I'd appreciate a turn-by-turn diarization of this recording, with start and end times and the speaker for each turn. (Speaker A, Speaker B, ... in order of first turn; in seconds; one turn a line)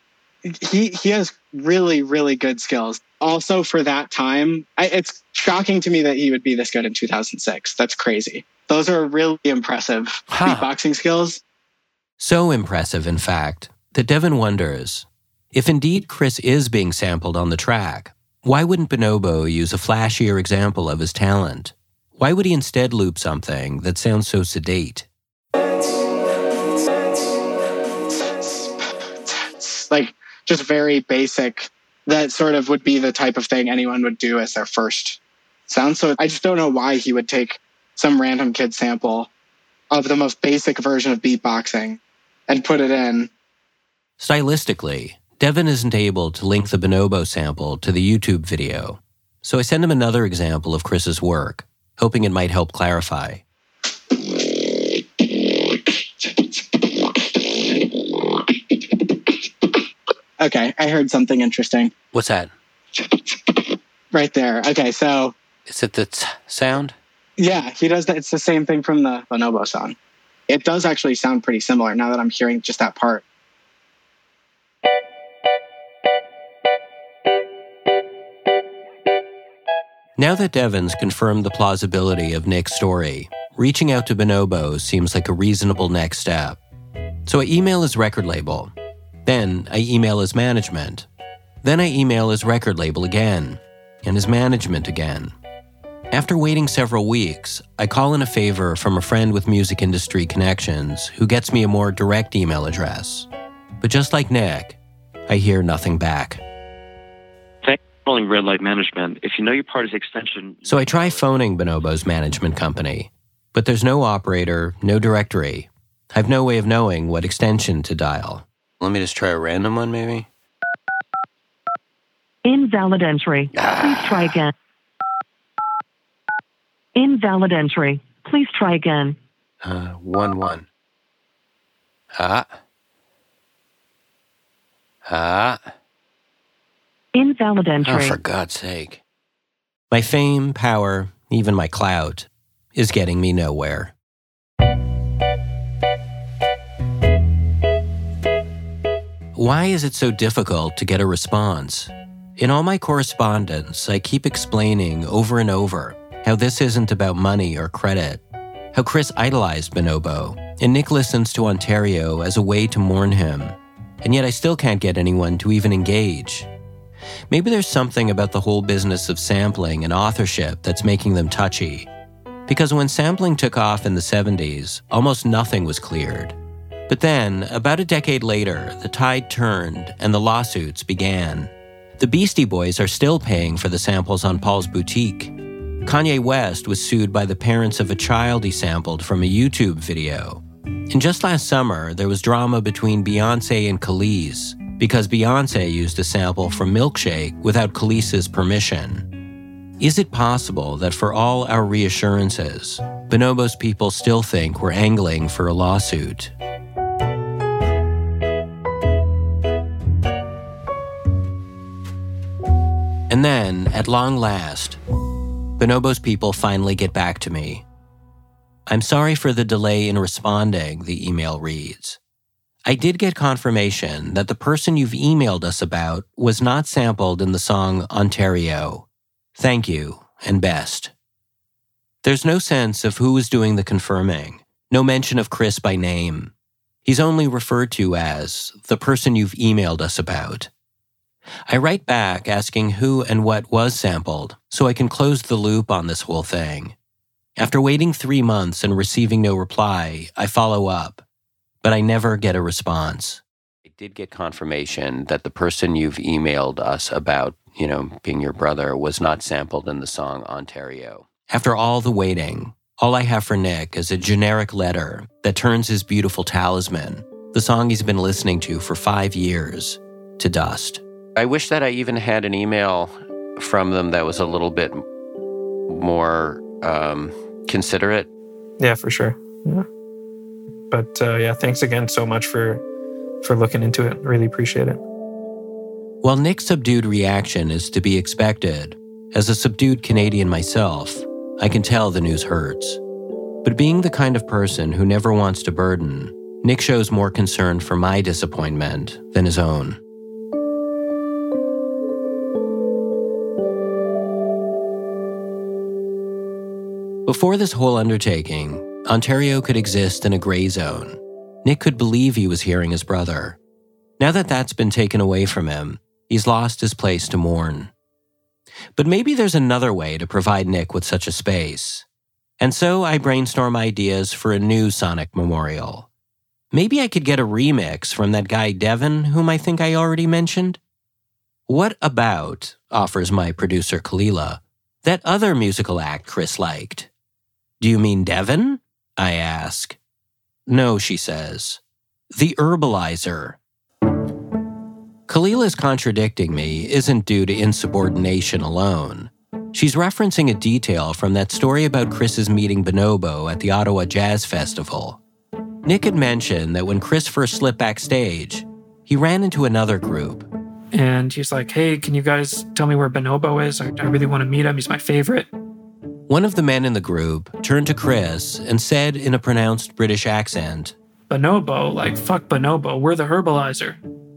Speaker A: 0.5-11.4
Speaker B: 10.3-10.7
Speaker B: 12.2-25.1
Speaker A: 28.2-39.3
Speaker A: 39.9-43.3
Speaker B: 44.2-53.4
Speaker A: 60.4-61.9
Speaker B: 62.1-62.5
Speaker A: 63.0-63.6
Speaker A: 64.1-65.3
Speaker B: 65.7-67.0
Speaker A: 67.4-70.0
Speaker A: 70.5-73.2
Speaker B: 80.2-86.6
Speaker B: 87.3-88.7
Speaker B: 89.2-91.1
Speaker B: 91.6-95.3
Speaker B: 96.1-103.3
Speaker B: 103.8-104.8
Speaker B: 105.3-106.4
Speaker C: 107.6-111.2
Speaker B: 110.7-120.3
Speaker D: 122.5-124.5
Speaker B: 123.5-124.4
Speaker D: 127.0-129.2
Speaker B: 129.6-130.7
Speaker B: 132.2-132.6
Speaker B: 135.1-135.7
Speaker D: 137.1-138.2
Speaker B: 137.8-139.0
Speaker B: 139.9-143.9
Speaker B: 149.3-158.2
Speaker B: 158.7-166.5
Speaker B: 167.3-171.9
Speaker B: 172.5-176.4
Speaker B: 176.9-185.3
Speaker B: 185.8-199.1
Speaker B: 199.8-206.3
Speaker B: 213.1-214.8
Speaker B: 215.6-217.6
Speaker B: 218.7-222.0
Speaker B: 222.7-230.9
Speaker B: 232.0-236.3
Speaker B: 236.8-240.5
Speaker B: 241.5-246.8
Speaker B: 247.4-251.0
Speaker B: 251.6-274.8
Speaker B: 275.7-278.1
Speaker E: 278.6-279.7
Speaker E: 280.7-282.6
Speaker E: 283.2-284.8
Speaker B: 286.0-292.8
Speaker B: 293.4-299.8
Speaker B: 307.1-313.4
Speaker B: 314.0-317.7
Speaker B: 318.8-321.9
Speaker B: 322.4-325.9
Speaker B: 326.5-330.6
Speaker B: 331.5-336.9
Speaker B: 337.6-339.8
Speaker B: 340.5-341.6
Speaker B: 342.1-343.4
Speaker B: 345.1-355.0
Speaker B: 355.6-360.3
Speaker E: 360.7-365.3
Speaker B: 366.1-370.7
Speaker E: 371.1-373.8